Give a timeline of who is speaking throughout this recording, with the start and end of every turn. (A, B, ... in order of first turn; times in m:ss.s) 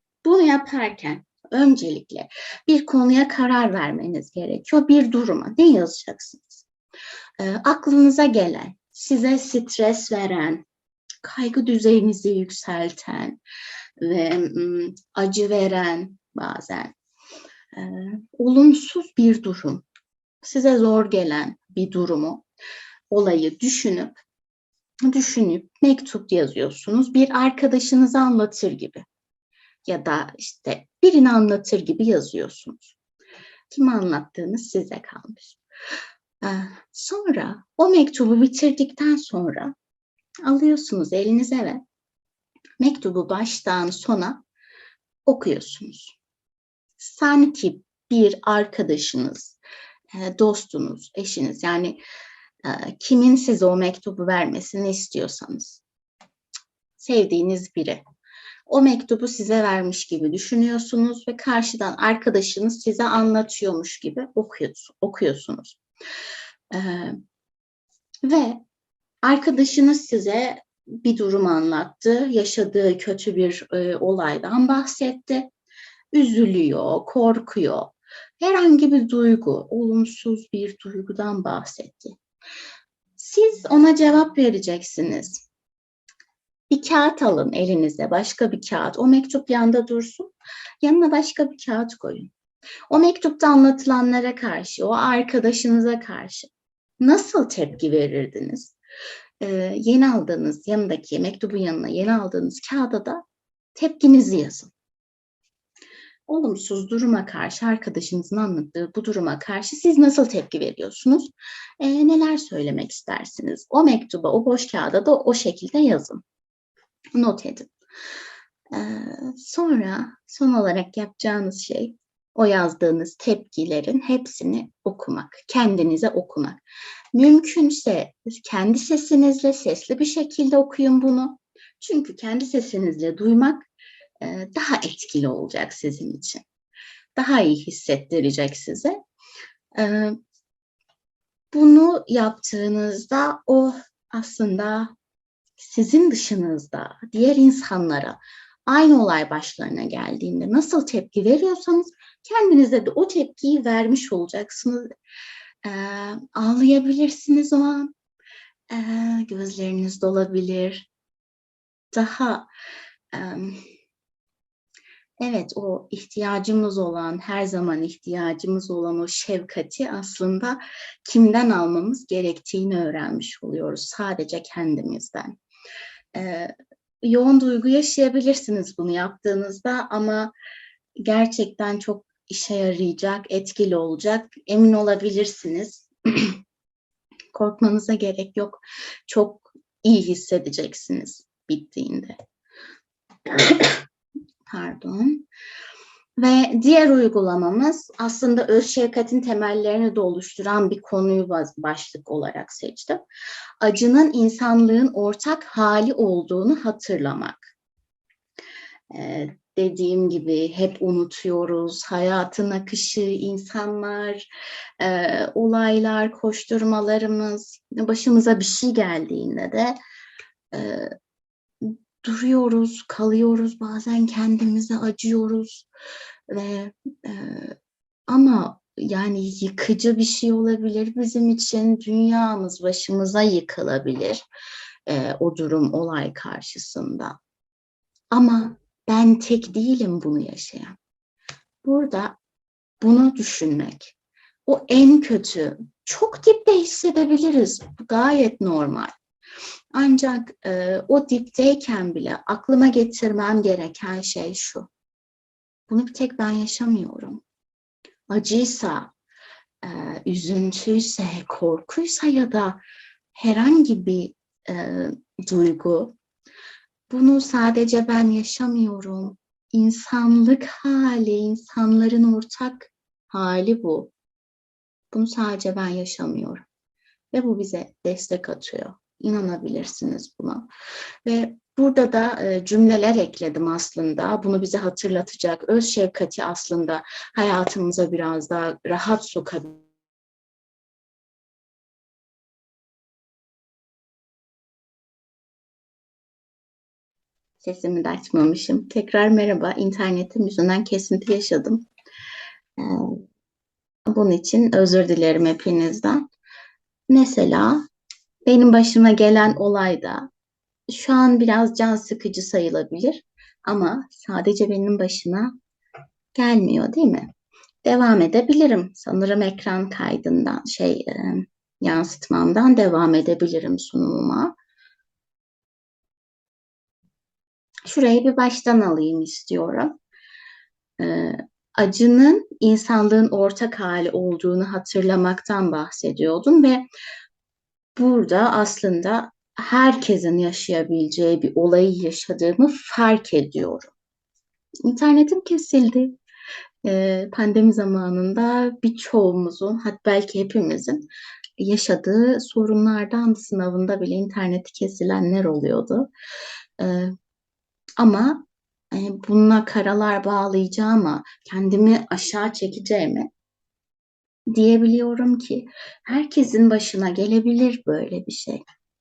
0:00.2-0:06.6 A
0:07.4-0:10.6 A
0:11.2-0:13.4 A
0:14.0-0:16.9 A
0:17.7-0:19.8 A
0:20.4-0:22.4 A
0:23.1-0:24.2 A
0:25.0-0:29.0 A
0:29.8-0:32.9 A
0:33.7-0:35.6 A
0:36.4-0:39.7 A
0:40.4-0:41.8 A
0:42.8-0:44.4 A
0:45.2-0:46.2 A
0:47.0-0:49.6 A
0:50.1-0:52.0 A
0:52.6-0:55.8 A
0:57.0-0:58.0 A
0:58.7-1:05.8 A
1:06.7-1:07.2 A
1:08.2-1:08.6 A
1:09.2-1:15.5 A
1:16.1-1:22.2 A
1:23.2-1:25.4 A
1:26.7-1:30.3 A
1:30.8-1:32.3 A
1:32.9-1:36.5 A
1:37.0-1:38.7 A
1:39.4-1:43.2 A
1:43.7-1:44.7 A
1:46.3-1:56.2 A
1:57.1-1:57.7 A
1:58.7-2:06.6 A
2:07.1-2:13.7 A
2:14.2-2:16.4 A
2:17.2-2:19.0 A
2:19.7-2:20.2 A
2:21.5-2:24.9 A
2:25.6-2:34.9 A
2:35.6-2:37.9 A
2:38.7-2:40.9 A
2:41.9-2:42.5 A
2:43.1-2:43.6 A
2:45.2-2:55.3 A
2:56.1-3:00.3 A
3:01.0-3:06.4 A
3:07.3-3:12.2 A
3:13.4-3:13.7 A
3:14.5-3:15.2 A
3:16.2-3:23.0 A
3:23.6-3:27.4 A
3:28.9-3:34.2 A
3:34.8-3:39.8 A
3:40.5-3:40.9 A
3:41.6-3:45.6 A
3:46.3-3:47.5 A
3:48.1-3:54.2 A
3:54.9-3:57.2 A
3:58.1-4:00.8 A
4:01.6-4:02.2 A
4:02.8-4:03.9 A
4:04.4-4:08.9 A
4:09.7-4:14.7 A
4:15.7-4:17.2 A
4:18.1-4:18.9 A
4:19.6-4:22.6 A
4:23.1-4:25.9 A
4:26.9-4:33.9 A
4:34.9-4:36.4 A
4:37.1-4:40.5 A
4:41.0-4:49.6 A
4:57.4-5:01.7 A
5:02.6-5:03.0 A
5:03.9-5:06.0 A
5:06.9-5:07.6 A
5:08.2-5:10.1 A
5:10.7-5:15.3 A
5:16.1-5:17.1 A
5:17.6-5:24.3 A
5:27.6-5:29.7 A
5:30.8-5:36.6 A
5:37.8-5:43.7 A
5:44.6-5:46.0 A
5:46.6-5:50.8 A
5:51.4-5:55.9 A
5:56.6-5:56.9 A
5:57.8-6:03.1 A
6:04.3-6:08.4 A